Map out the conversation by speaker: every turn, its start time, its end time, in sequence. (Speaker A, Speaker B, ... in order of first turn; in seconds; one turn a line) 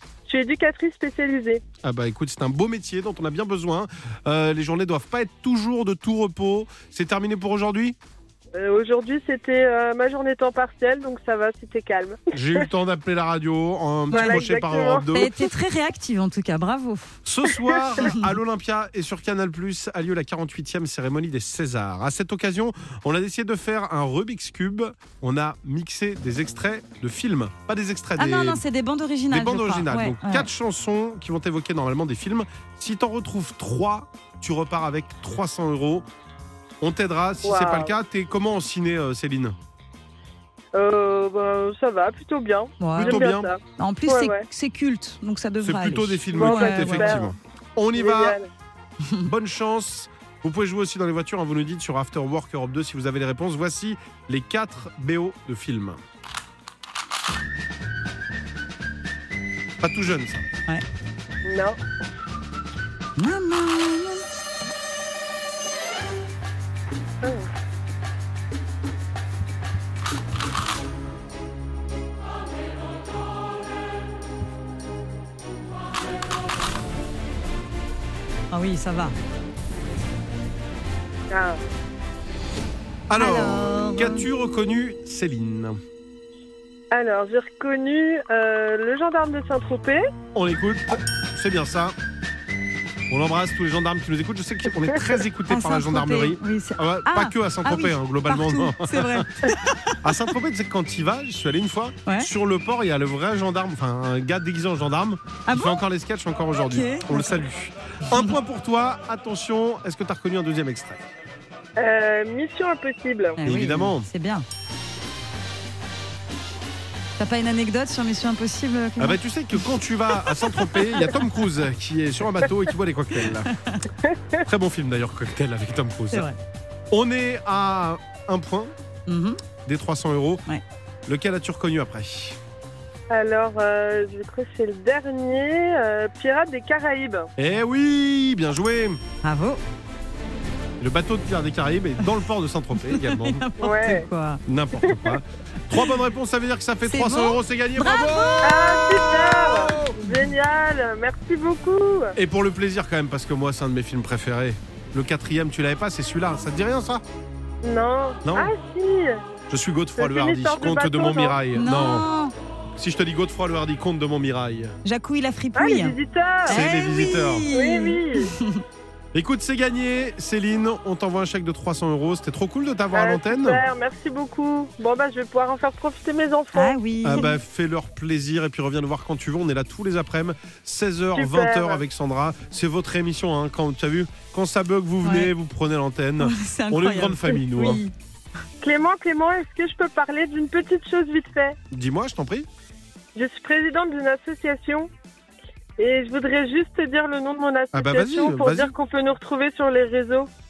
Speaker A: 0.3-1.6
Speaker B: 1.8-8.0
Speaker A: 8.6-12.6
Speaker B: 12.3-15.5
Speaker C: 14.1-14.4
Speaker A: 14.1-15.1
Speaker C: 15.1-17.2
Speaker B: 17.2-28.6
Speaker C: 18.0-18.3
Speaker C: 28.2-30.5
Speaker B: 29.3-36.0
Speaker B: 36.8-39.6
Speaker A: 37.4-37.9
Speaker A: 40.7-44.4
Speaker C: 42.8-43.2
Speaker B: 42.9-43.5
Speaker C: 43.8-47.3
Speaker B: 45.6-48.4
Speaker A: 46.3-47.3
Speaker A: 48.0-48.5
Speaker B: 49.2-56.0
Speaker B: 59.8-60.5
Speaker A: 61.4-61.8
Speaker C: 63.2-64.2
Speaker C: 78.5-79.1
Speaker A: 81.3-81.6
Speaker B: 83.1-85.8
Speaker C: 83.2-84.2
Speaker A: 86.9-90.0
Speaker B: 90.3-92.0
Speaker B: 93.1-99.3
Speaker C: 95.5-100.1
Speaker B: 100.0-111.1
Speaker C: 105.5-105.8
Speaker C: 106.6-107.4
Speaker A: 111.8-113.4
Speaker C: 113.4-114.5
Speaker B: 113.4-114.1
Speaker C: 117.2-119.6
Speaker B: 119.0-123.5
Speaker C: 123.5-123.8
Speaker A: 124.1-124.4
Speaker B: 124.5-126.3
Speaker C: 126.1-126.4
Speaker B: 126.9-128.7
Speaker C: 129.1-129.4
Speaker B: 129.6-130.4
Speaker B: 131.1-132.4
Speaker A: 133.1-137.3
Speaker B: 137.4-139.0
Speaker C: 139.2-139.6
Speaker B: 140.8-143.4
Speaker C: 142.8-144.4
Speaker A: 143.6-144.1
Speaker B: 144.4-150.2
Speaker A: 144.8-145.2
Speaker C: 146.8-149.7
Speaker A: 148.4-152.1
Speaker B: 152.1-157.0
Speaker A: 157.6-159.2
Speaker B: 158.2-158.5
Speaker B: 159.5-162.1
Speaker A: 160.0-161.4
Speaker C: 161.5-162.3
Speaker B: 162.8-164.8
Speaker C: 164.8-168.6
Speaker A: 165.5-166.7
Speaker B: 166.5-167.5
Speaker A: 167.5-168.3
Speaker B: 169.1-173.6
Speaker A: 172.9-176.7
Speaker C: 176.5-177.3
Speaker B: 177.0-187.8
Speaker A: 181.2-181.8
Speaker C: 185.0-185.3
Speaker C: 186.2-187.9
Speaker A: 188.6-191.6
Speaker B: 191.7-192.5
Speaker A: 193.1-194.9
Speaker A: 195.8-200.3
Speaker B: 197.7-198.7